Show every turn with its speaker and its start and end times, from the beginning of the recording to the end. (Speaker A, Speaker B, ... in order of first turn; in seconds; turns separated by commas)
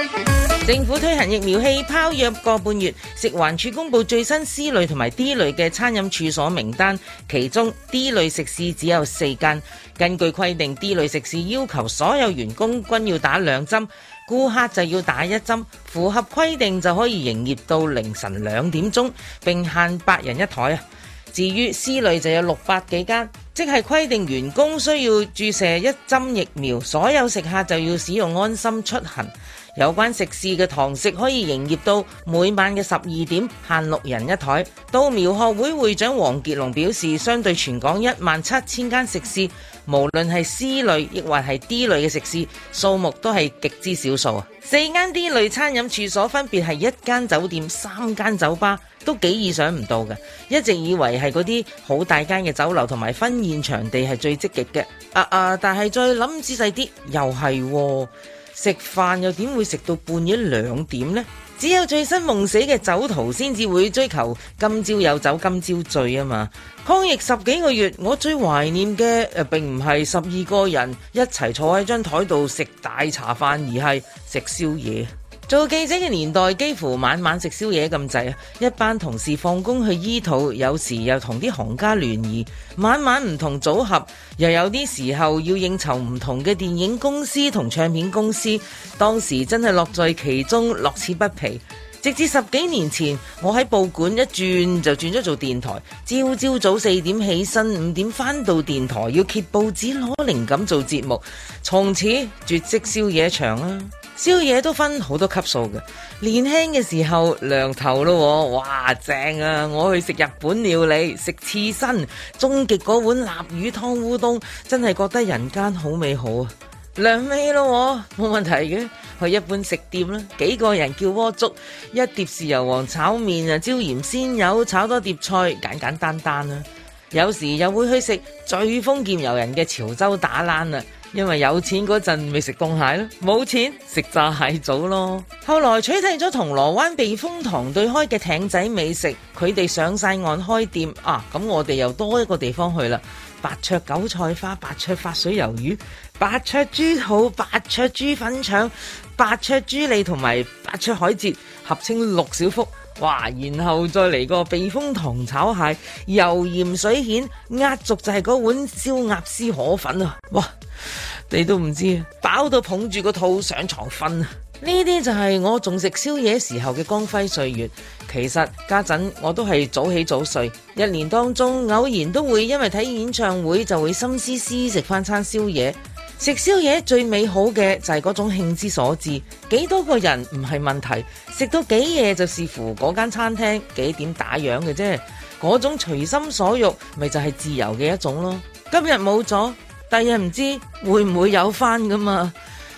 Speaker A: 0.6-192.3